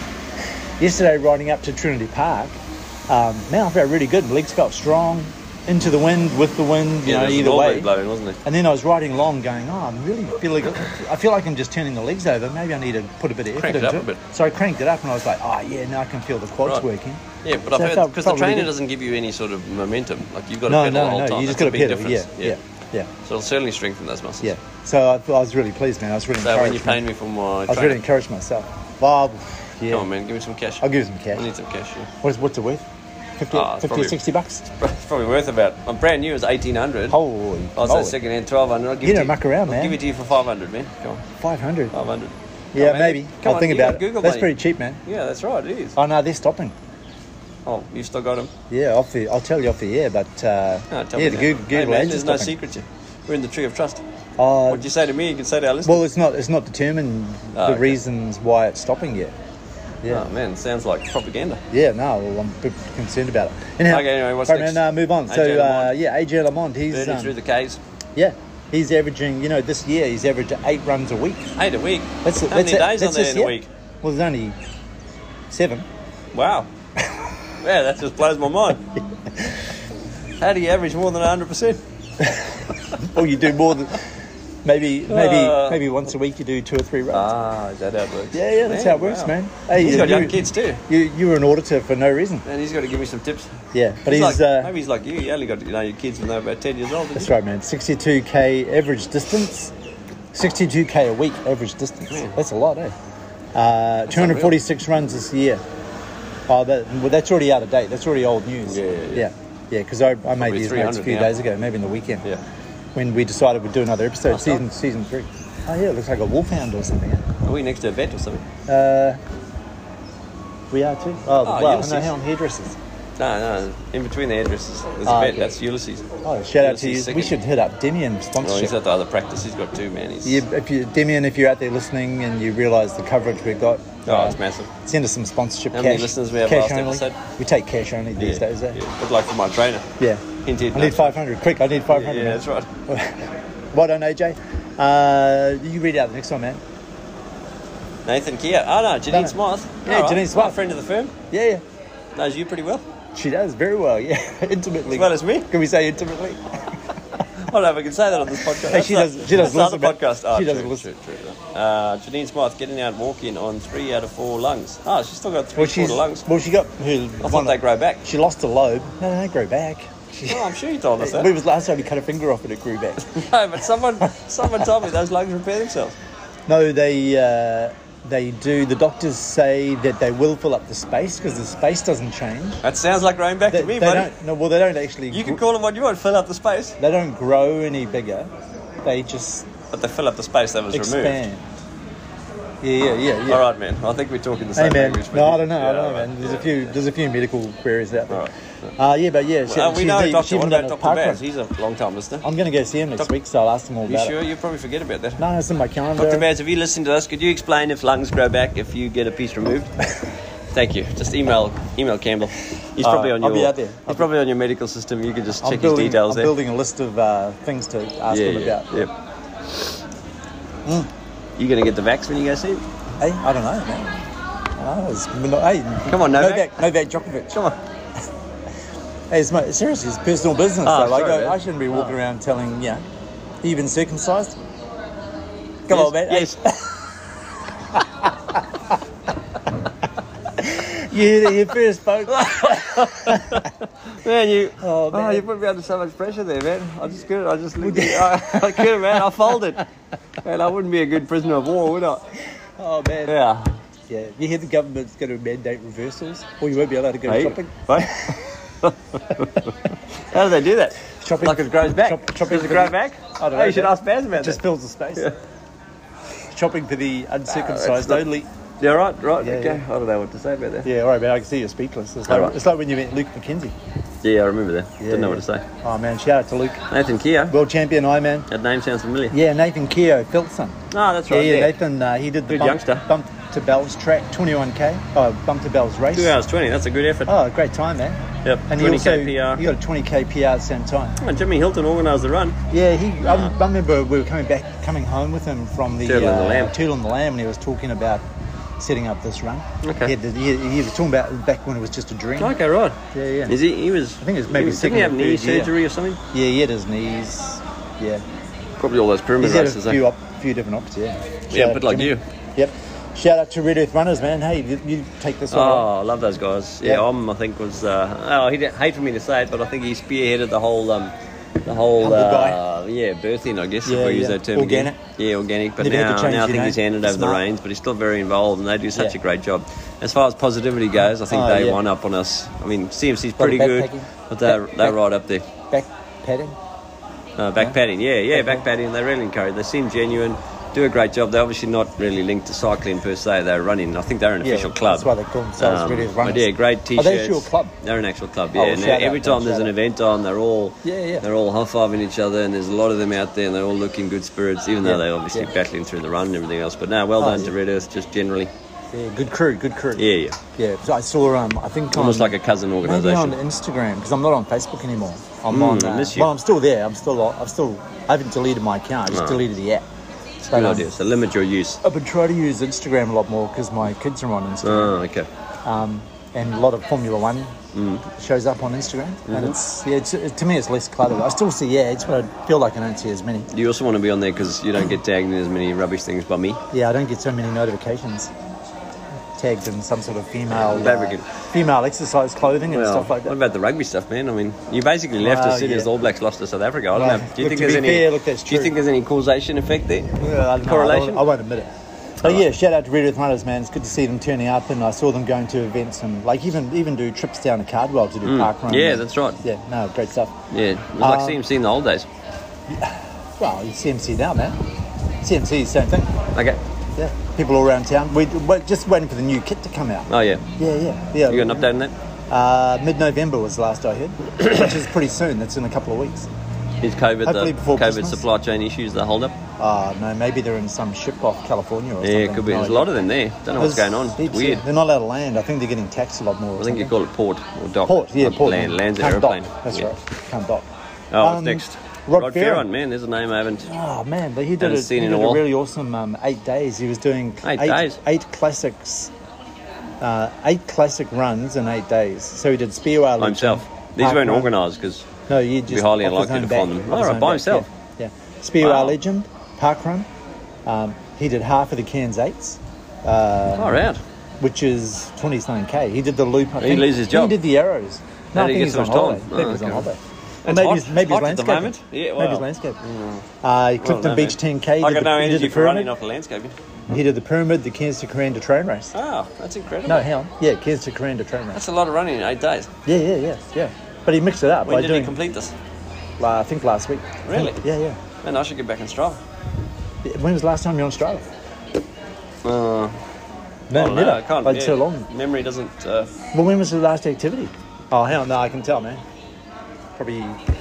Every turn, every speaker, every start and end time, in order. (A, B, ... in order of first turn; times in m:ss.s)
0:00.8-0:07.9 A
0:07.0-0:08.4 B
0:08.4-0:17.2 A
0:13.5-0:14.2 B
0:17.4-0:22.6 B
0:17.7-0:18.7 A
0:20.7-0:23.1 A
0:23.2-0:24.5 B
0:24.4-0:27.0 A
0:26.4-0:28.0 B
0:27.7-0:30.1 A
0:29.9-0:32.1 B
0:30.8-0:31.4 A
0:32.2-0:32.8 A
0:33.4-0:34.7 A
0:33.5-0:34.2 B
0:34.8-0:37.2 B
0:37.1-0:38.2 A
0:37.8-0:41.2 B
0:39.0-0:40.0 A
0:41.4-0:41.9 A
0:41.9-0:46.0 B
0:42.7-0:45.0 A
0:46.0-0:46.7 A
0:47.6-0:48.5 B
0:48.7-0:52.5 A
0:50.9-0:54.0 B
0:54.4-0:54.9 A
0:54.7-0:56.0 B
0:55.8-0:59.3 A
0:57.6-0:58.0 B
1:00.1-1:01.6 B
1:01.7-1:07.3 A
1:03.8-1:06.0 B
1:06.9-1:07.8 B
1:08.2-1:11.5 A
1:11.6-1:13.7 B
1:12.2-1:14.6 A
1:15.5-1:15.9 A
1:16.3-1:16.7 B
1:17.6-1:18.9 B
1:20.4-1:21.8 B
1:22.2-1:24.0 A
1:24.6-1:27.3 A
1:25.1-1:25.8 B
1:27.1-1:30.8 B
1:28.3-1:32.4 A
1:32.4-1:37.3 B
1:33.7-1:34.7 A
1:37.1-1:39.7 A
1:40.3-1:42.9 A
1:42.1-1:42.3 B
1:43.5-1:45.6 A
1:44.1-1:44.6 B
1:46.5-1:52.2 A
1:48.7-1:49.2 B
1:50.4-1:51.3 B
1:52.9-1:57.2 A
1:54.3-1:54.6 B
1:57.4-1:58.4 B
1:58.7-1:59.2 A
2:00.7-2:02.8 A
2:01.4-2:02.1 B
2:03.2-2:06.0 B
2:05.1-2:05.5 A
2:06.2-2:08.7 A
2:06.6-2:07.4 B
2:08.4-2:10.4 B
2:10.2-2:18.8 A
2:14.0-2:14.7 B
2:15.7-2:17.2 B
2:18.2-2:19.9 B
2:20.0-2:26.6 A
2:20.4-2:21.2 B
2:21.9-2:22.7 B
2:28.0-2:31.1 B
2:29.1-2:30.6 A
2:31.3-2:31.6 A
2:32.1-2:32.8 B
2:33.1-2:36.6 A
2:34.9-2:35.5 B
2:37.4-2:46.2 B
2:38.6-2:40.8 A
2:45.6-2:50.5 A
2:47.2-2:48.0 B
2:50.3-2:51.3 B
2:51.0-2:53.3 A
2:53.1-2:56.0 B
2:56.5-3:02.6 A
3:02.6-3:04.1 B
3:03.5-3:05.4 A
3:05.1-3:06.8 B
3:06.8-3:08.3 A
3:08.8-3:09.5 A
3:09.7-3:11.2 B
3:10.7-3:11.5 A
3:12.6-3:13.4 A
3:13.3-3:16.7 B
3:14.6-3:21.2 A
3:18.1-3:18.7 B
3:19.4-3:22.2 B
3:22.2-3:24.1 A
3:23.8-3:25.2 B
3:25.2-3:26.2 A
3:26.0-3:29.7 B
3:30.5-3:36.3 B
3:32.8-3:34.0 A
3:35.4-3:38.9 A
3:38.1-3:38.9 B
3:41.4-3:42.6 B
3:43.0-3:44.0 A
3:44.6-3:47.4 A
3:45.8-3:46.7 B
3:47.3-3:47.6 B
3:49.1-3:52.8 A
3:50.6-3:52.0 B
3:53.4-3:54.4 A
3:55.7-3:56.8 A
3:55.7-3:56.4 B
3:57.8-3:58.0 A
4:00.4-4:03.4 A
4:02.1-4:09.6 B
4:04.6-4:05.2 A
4:07.6-4:08.8 A
4:10.2-4:12.0 B
4:12.6-4:13.2 A
4:13.0-4:13.5 B
4:13.9-4:18.2 A
4:17.0-4:24.4 B
4:21.0-4:25.1 A
4:26.3-4:28.3 A
4:27.3-4:28.1 B
4:28.6-4:30.7 B
4:29.2-4:29.6 A
4:30.6-4:33.5 A
4:32.1-4:32.4 B
4:34.0-4:35.4 B
4:34.8-4:36.6 A
4:36.7-4:37.4 B
4:37.3-4:38.3 A
4:38.3-4:39.2 B
4:39.1-4:46.2 A
4:40.7-4:41.6 B
4:42.3-4:42.9 B
4:45.9-4:47.1 B
4:47.1-4:51.0 A
4:48.2-4:49.4 B
4:51.0-4:52.4 B
4:52.5-4:58.0 A
4:53.0-4:53.3 B
4:55.8-4:56.5 B
4:58.6-5:02.4 A
4:59.6-4:59.9 B
5:02.2-5:06.0 B
5:02.9-5:03.4 A
5:04.0-5:05.5 A
5:06.1-5:08.0 A
5:08.6-5:09.8 B
5:09.2-5:15.7 A
5:11.3-5:12.0 B
5:15.3-5:35.2 B
5:21.8-5:22.4 A
5:23.6-5:24.8 A
5:25.6-5:27.2 A
5:31.1-5:31.6 A
5:33.2-5:34.8 A
5:35.5-5:36.4 A
5:37.2-5:58.3 B
5:38.1-5:38.4 A
5:44.2-5:47.5 A
5:48.3-5:49.5 A
5:50.6-5:51.0 A
5:54.6-5:55.3 A
5:57.0-5:57.3 A
5:58.7-6:09.6 A
5:59.8-6:00.2 B
6:01.7-6:03.2 B
6:05.3-6:06.1 B
6:08.9-6:09.2 B
6:10.3-6:10.7 A
6:10.3-6:11.6 B
6:11.6-6:14.7 A
6:14.4-6:15.1 B
6:15.4-6:17.3 A
6:17.5-6:17.8 B
6:17.9-6:23.3 A
6:19.1-6:19.4 B
6:23.3-6:26.4 B
6:26.5-6:28.1 A
6:29.2-6:33.2 A
6:30.3-6:31.1 B
6:32.5-6:41.0 B
6:35.0-6:35.7 A
6:36.7-6:38.5 A
6:40.0-6:50.2 A
6:48.0-6:49.2 B
6:50.3-6:51.9 B
6:50.8-6:51.2 A
6:52.5-6:54.4 A
6:55.0-6:55.9 A
6:56.1-6:56.4 B
6:56.8-7:01.5 A
6:59.9-7:00.2 B
7:01.0-7:01.7 B
7:02.1-7:06.1 A
7:06.6-7:09.2 B
7:07.0-7:08.0 A
7:09.4-7:12.7 A
7:11.8-7:14.4 B
7:13.4-7:16.7 A
7:16.4-7:19.7 B
7:17.6-7:20.5 A
7:20.9-7:23.5 B
7:21.0-7:22.5 A
7:23.4-7:28.9 A
7:24.4-7:25.2 B
7:27.2-7:27.8 B
7:29.8-7:34.3 A
7:33.0-7:34.9 B
7:35.1-7:39.9 A
7:35.5-7:37.5 B
7:38.4-7:38.8 B
7:40.4-7:43.6 A
7:43.3-7:43.8 B
7:44.2-7:52.6 A
7:46.4-7:47.2 B
7:48.1-7:49.7 B
7:50.2-7:53.0 B
7:53.2-7:55.7 A
7:53.6-7:56.3 B
7:56.7-7:58.7 A
7:58.7-7:59.9 B
7:59.6-8:01.4 A
8:01.3-8:02.5 B
8:02.6-8:04.9 A
8:04.4-8:05.3 B
8:06.0-8:07.8 A
8:07.0-8:07.4 B
8:08.0-8:09.0 B
8:09.8-8:11.0 A
8:12.2-8:12.7 B
8:13.5-8:14.9 A
8:13.5-8:15.9 B
8:16.1-8:18.8 A
8:19.8-8:20.2 A